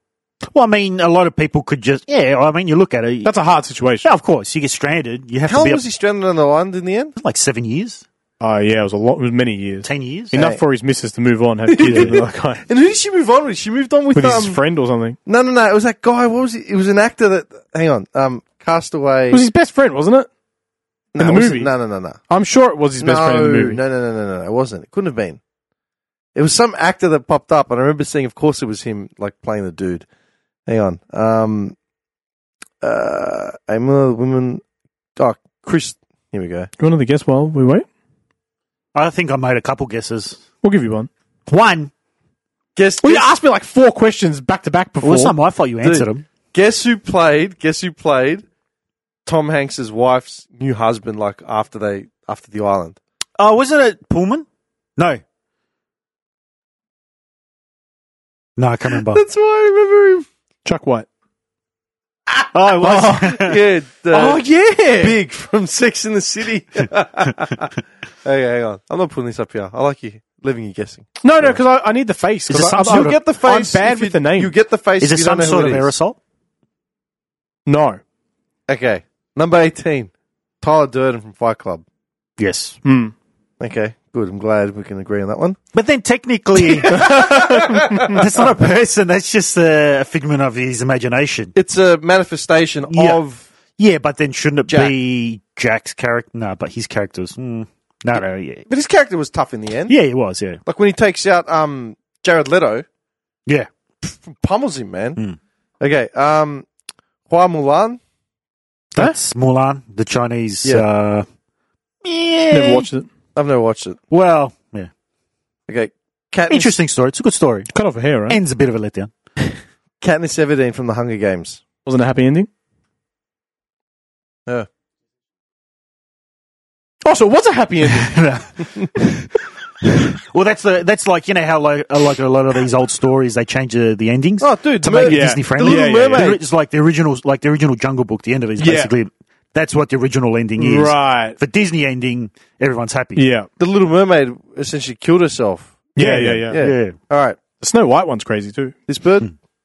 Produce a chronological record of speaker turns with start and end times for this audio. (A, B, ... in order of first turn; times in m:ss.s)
0:00.5-0:03.3 A
0:03.2-0:04.1 B
0:04.0-0:05.8 A
0:05.5-0:07.1 C
0:07.2-0:08.0 A
0:08.4-0:12.6 B
0:09.8-0:10.3 A
0:10.3-0:10.6 C
0:11.7-0:14.6 C
0:11.8-0:12.1 A
0:14.2-0:15.2 B
0:15.3-0:19.4 C
0:19.3-0:20.3 B
0:21.1-0:22.2 C
0:21.2-0:21.7 B
0:22.3-0:23.8 B
0:23.0-0:25.4 C
0:26.4-0:30.1 C
0:30.7-0:31.8 C
0:32.8-0:34.6 C
0:35.2-0:36.7 C
0:36.8-0:37.9 B
0:39.0-0:40.4 A
0:40.6-0:41.1 B
0:41.5-0:41.9 A
0:42.8-0:43.3 C
0:43.0-0:45.3 B
0:45.0-0:46.2 A
0:45.8-0:48.4 C
0:49.3-0:53.0 C
0:53.4-0:54.5 A
0:58.6-0:59.2 A
0:59.0-1:00.3 C
1:00.6-1:01.1 B
1:02.3-1:04.4 C
1:02.5-1:03.6 A
1:02.8-1:03.2 B
1:04.1-1:05.2 B
1:05.0-1:11.6 C
1:11.2-1:14.5 B
1:12.5-1:13.2 A
1:12.6-1:15.9 C
1:15.0-1:16.2 A
1:17.7-1:18.0 B
1:18.7-1:21.8 C
1:22.4-1:22.8 A
1:22.8-1:23.1 B
1:23.6-1:25.6 C
1:25.7-1:31.5 A
1:26.6-1:28.2 C
1:26.9-1:28.2 B
1:31.6-1:33.5 C
1:32.9-1:33.2 A
1:33.8-1:38.6 A
1:34.7-1:34.9 C
1:38.7-1:39.9 C
1:39.9-1:40.6 A
1:40.7-1:42.8 C
1:44.0-1:45.2 C
1:45.8-1:46.7 C
1:47.3-1:48.0 C
1:48.9-1:51.3 A
1:52.0-1:52.9 A
1:52.5-1:53.1 B
1:53.4-1:54.0 C
1:54.1-1:54.9 A
1:55.7-1:56.8 C
1:56.5-1:57.7 A
1:57.7-1:58.4 B
1:58.3-1:59.1 A
2:00.0-2:01.6 C
2:01.8-2:02.5 B
2:07.0-2:08.2 B
2:07.8-2:09.3 A
2:09.8-2:23.3 A
2:14.4-2:16.4 C
2:15.0-2:16.3 B
2:18.6-2:18.9 B
2:20.6-2:21.4 B
2:23.2-2:23.5 B
2:23.6-2:27.4 C
2:26.0-2:26.6 B
2:26.0-2:27.0 A
2:27.6-2:28.8 B
2:28.9-2:29.3 C